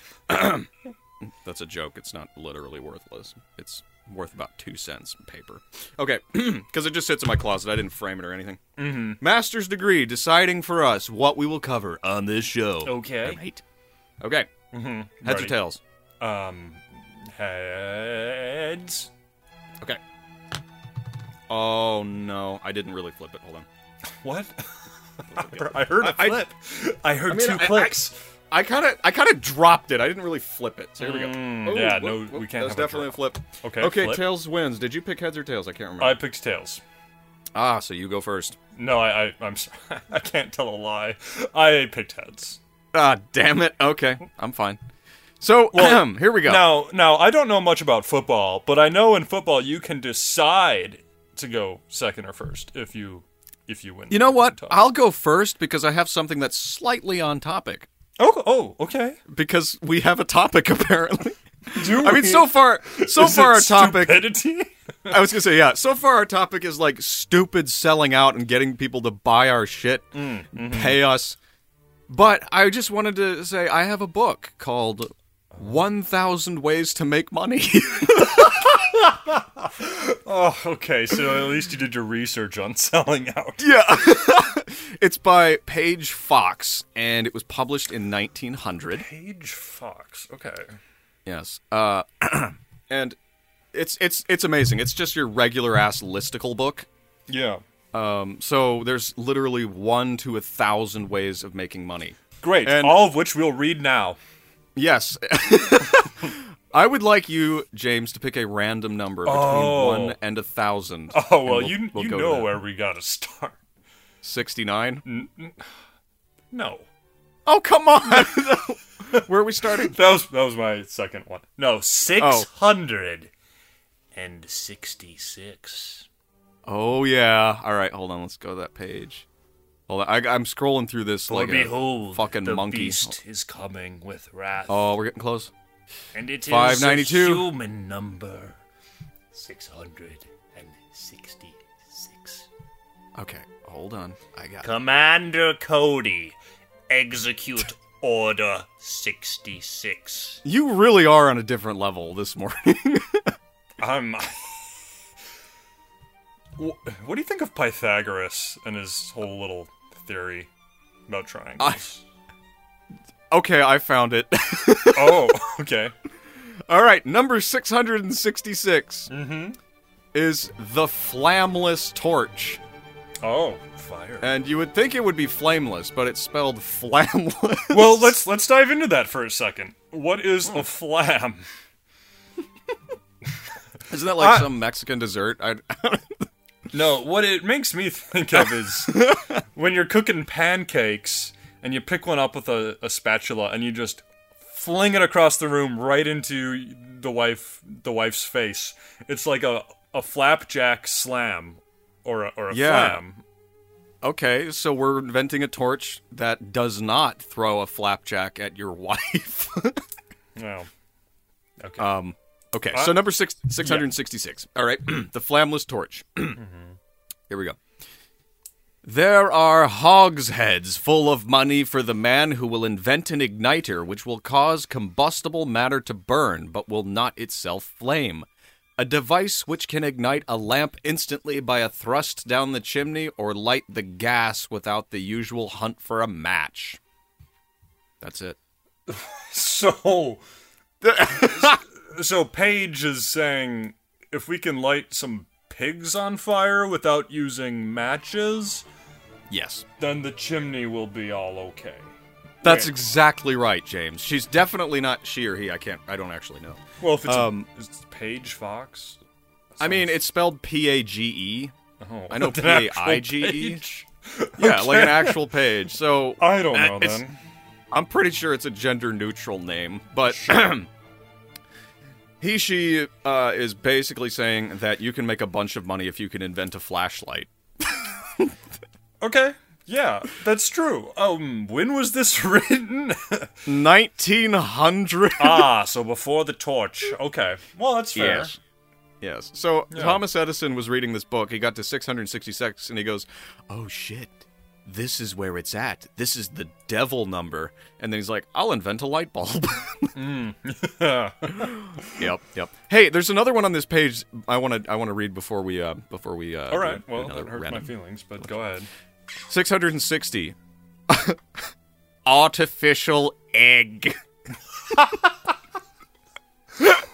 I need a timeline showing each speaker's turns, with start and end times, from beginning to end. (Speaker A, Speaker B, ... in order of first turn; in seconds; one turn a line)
Speaker A: 0.3-0.7
Speaker A: 1.4-8.6
Speaker B: 8.8-9.2
Speaker A: 9.2-13.6
Speaker B: 12.8-13.4
Speaker A: 14.2-14.5
Speaker B: 14.7-15.6
Speaker A: 15.2-15.8
Speaker B: 16.2-19.1
Speaker A: 21.5-23.6
Speaker B: 24.2-24.7
Speaker B: 25.2-28.1
Speaker A: 25.3-26.4
Speaker A: 27.3-36.2
Speaker B: 31.0-34.3
Speaker B: 36.0-36.8
Speaker A: 37.5-38.6
Speaker B: 38.8-42.6
Speaker A: 42.9-44.8
Speaker A: 45.4-46.7
Speaker B: 45.7-54.8
Speaker A: 54.1-57.9
Speaker B: 58.2-59.2
Speaker A: 59.3-64.3
Speaker B: 61.7-65.2
Speaker A: 65.1-71.4
Speaker B: 70.1-71.0
Speaker A: 72.1-78.8
Speaker B: 78.4-83.7
Speaker A: 83.6-89.0
Speaker B: 88.9-90.7
Speaker A: 91.2-93.2
Speaker A: 93.7-96.9
Speaker B: 97.3-97.6
Speaker A: 97.9-103.1
Speaker B: 102.4-104.2
Speaker A: 104.8-112.5
Speaker B: 109.2-110.2
Speaker B: 111.1-113.6
Speaker A: 114.2-115.0
Speaker B: 115.0-115.6
Speaker B: 116.5-116.9
Speaker A: 117.5-119.9
Speaker B: 119.1-123.3
Speaker A: 122.2-122.5
Speaker B: 124.1-126.1
Speaker A: 126.7-129.2
Speaker A: 129.9-133.2
Speaker B: 131.3-134.9
Speaker A: 134.7-135.5
Speaker B: 136.1-138.6
Speaker A: 136.4-137.5
Speaker B: 139.3-142.5
Speaker A: 143.2-144.7
Speaker B: 144.6-146.3
Speaker B: 146.9-150.4
Speaker A: 150.4-153.3
Speaker B: 153.8-154.6
Speaker B: 156.6-160.5
Speaker B: 161.1-162.0
Speaker A: 163.3-165.4
Speaker B: 164.9-165.9
Speaker A: 166.7-169.1
Speaker B: 169.1-169.6
Speaker A: 170.1-172.6
Speaker B: 173.2-174.3
Speaker A: 174.2-178.2
Speaker B: 177.7-181.4
Speaker A: 183.9-186.3
Speaker B: 184.1-184.5
Speaker B: 186.7-203.2
Speaker A: 188.3-189.4
Speaker A: 202.5-203.0
Speaker A: 204.0-209.8
Speaker B: 210.3-210.7
Speaker B: 211.6-211.9
Speaker A: 211.8-216.4
Speaker B: 212.7-213.9
Speaker B: 216.3-216.8
Speaker A: 217.3-217.6
Speaker A: 218.8-228.2
Speaker A: 228.8-236.8
Speaker A: 238.0-238.4
Speaker B: 238.9-240.2
Speaker A: 240.8-241.6
Speaker B: 241.0-248.6
Speaker A: 249.3-249.6
Speaker B: 249.8-251.9
Speaker A: 252.4-257.5
Speaker B: 252.4-252.7
Speaker B: 256.8-259.0
Speaker B: 259.5-260.0
Speaker A: 259.6-261.5
Speaker B: 261.8-265.3
Speaker A: 262.1-263.6
Speaker A: 264.4-267.0
Speaker B: 266.2-267.2
Speaker A: 267.7-270.7
Speaker B: 270.1-270.5
Speaker A: 272.2-278.3
Speaker B: 279.0-283.3
Speaker A: 283.4-285.5
Speaker B: 285.2-288.3
Speaker A: 287.9-288.4
Speaker A: 289.0-299.9
Speaker B: 289.7-290.0
Speaker B: 299.9-302.0
Speaker A: 301.4-308.2
Speaker B: 306.5-308.7
Speaker A: 309.3-310.4
Speaker A: 310.9-311.2
Speaker A: 312.0-314.0